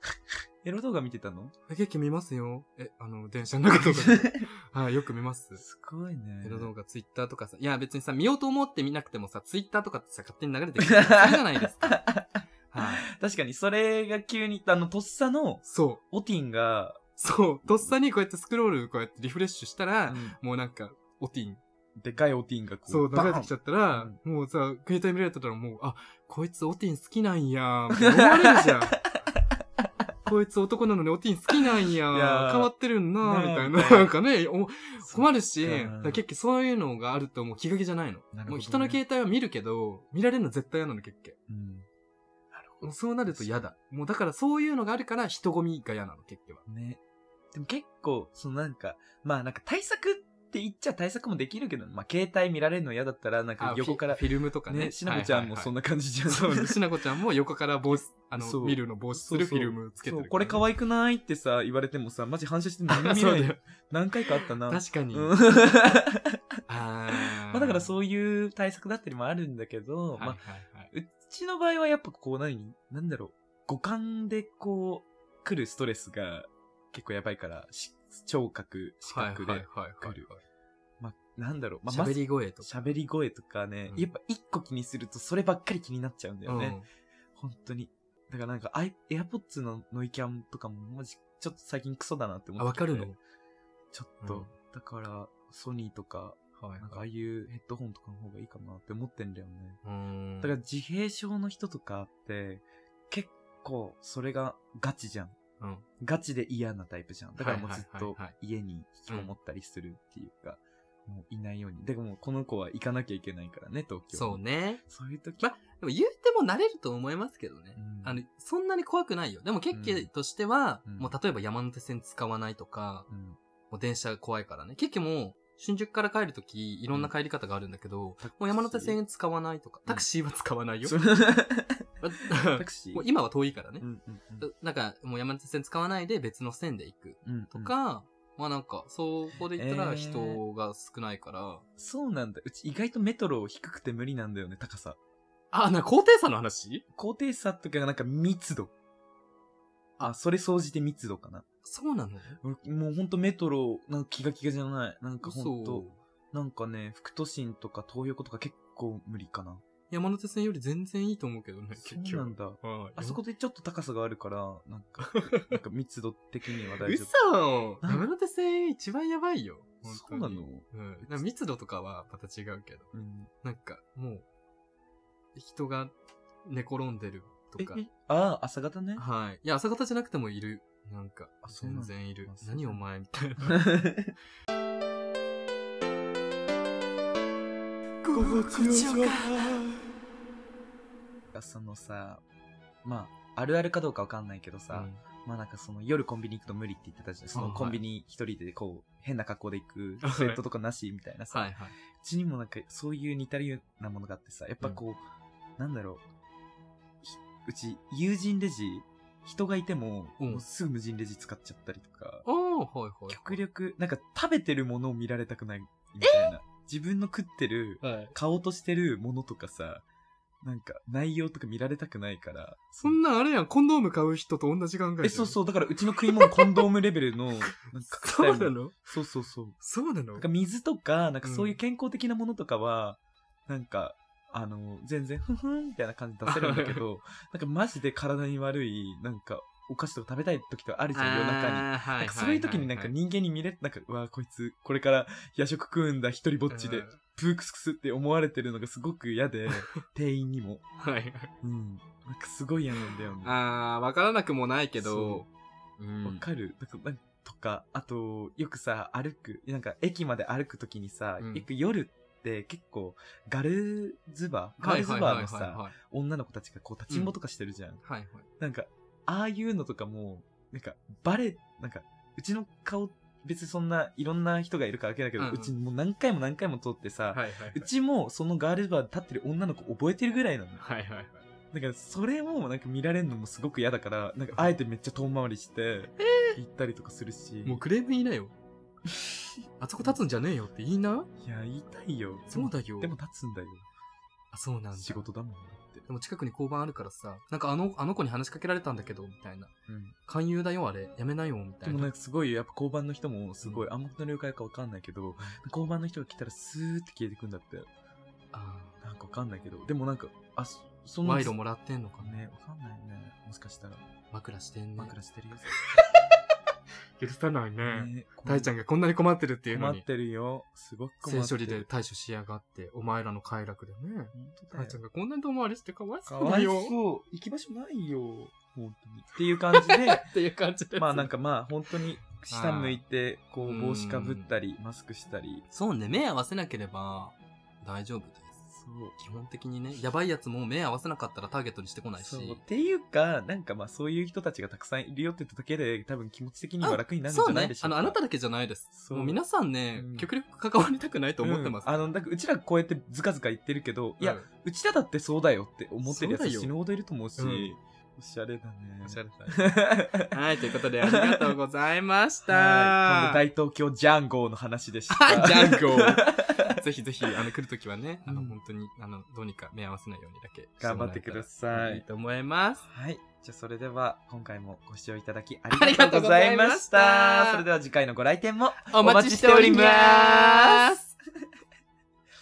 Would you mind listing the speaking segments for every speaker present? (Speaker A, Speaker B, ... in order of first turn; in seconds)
Speaker A: 0.6-1.5, 4.0-4.4, 5.5-6.7, 10.8-17.1, 17.6-17.9, 20.1-20.4, 22.0-24.2, 27.9-28.9, 32.1-34.1, 35.0-36.2, 38.3-39.0, 41.5-41.9, 42.5-43.7, 46.6-47.0, 47.5-57.0, 57.9-66.4, 67.1-80.3, 81.0-86.8, 87.3-93.1, 93.9-99.8, 100.4-105.3, 106.0-115.5, 117.8-118.2, 119.7-120.1, 120.8-121.1, 123.1-123.4, 128.2-129.0, 130.8-133.1, 133.8-134.5, 137.2-137.7, 139.5-140.4, 141.8-145.0, 146.9-148.7, 150.0-151.4, 152.4-159.6, 161.8-167.2, 167.8-168.1, 169.8-171.3, 172.9-173.3, 177.6-179.1, 181.4-182.8, 183.4-184.1, 188.1-189.7, 191.3-192.2, 192.8-205.0, 205.6-206.0, 207.0-212.2, 213.1-219.8, 220.4-223.0, 225.0-229.6, 230.1-250.6, 251.4-253.3, 254.8-255.2, 256.0-267.8, 268.4-280.6, 281.5-287.6, 288.9-289.2, 289.8-290.0, 291.2-293.6, 294.7-295.9, 299.7-299.9, 301.6-307.7, 308.8-311.3, 312.0-313.8, 314.8-315.6, 317.6-318.5, 319.5-321.7, 324.1-324.8, 326.1-330.1, 330.8-335.4, 338.5-339.0, 342.0-348.0, 348.7-349.2, 349.7-350.1, 351.2-361.4, 362.3-366.6, 368.0-368.4, 370.6-371.9, 372.6-381.2
Speaker B: 1.7-5.6, 6.4-12.0, 12.7-13.1, 15.6-16.0, 17.1-21.6, 22.9-29.0, 30.2-41.4, 42.8-46.6, 53.6-55.7, 56.3-60.6, 62.9-63.6, 64.4-65.3, 66.7-67.9, 70.1-70.9, 79.0-80.4, 81.8-82.9, 86.4-86.8, 92.6-93.2, 94.2-94.5, 96.6-97.1, 99.8-100.5, 105.6-105.8, 107.4-108.3, 114.1-114.8, 115.4-123.1, 123.7-131.1, 132.0-133.8, 134.4-141.6, 145.5-146.8, 151.6-152.4, 155.2-156.0, 159.9-163.2, 165.0-165.6, 166.8-174.2, 175.3-175.9, 176.4-177.8, 179.0-183.7, 188.0-189.6, 194.7-195.0, 197.3-197.8, 200.0-200.4, 201.3-201.8, 210.2-210.4, 212.2-213.4, 216.0-216.3, 217.8-218.1, 222.8-225.4, 226.0-226.7, 227.6-229.0, 229.6-230.3, 231.2-231.6, 236.2-236.8, 240.9-242.9, 246.5-247.0, 250.8-251.3, 252.8-255.3, 255.8-256.2, 261.2-261.4, 264.6-265.7, 266.9-267.1, 267.8-268.3, 275.2-275.5, 277.1-277.7, 280.6-281.2, 286.0-286.4, 287.4-288.3, 289.6-291.1, 292.3-292.9, 294.3-295.1, 295.9-299.5, 300.0-301.9, 303.4-303.7, 308.3-308.8, 311.0-312.3, 314.1-314.9, 317.0-319.8, 321.0-326.8, 329.5-331.1, 332.3-332.8, 333.4-334.3, 335.5-338.4, 338.9-342.4, 346.6-351.9, 354.0-354.3, 355.8-356.5, 357.2-357.5, 358.8-363.2, 364.9-372.6, 375.5-377.4, 378.6-380.8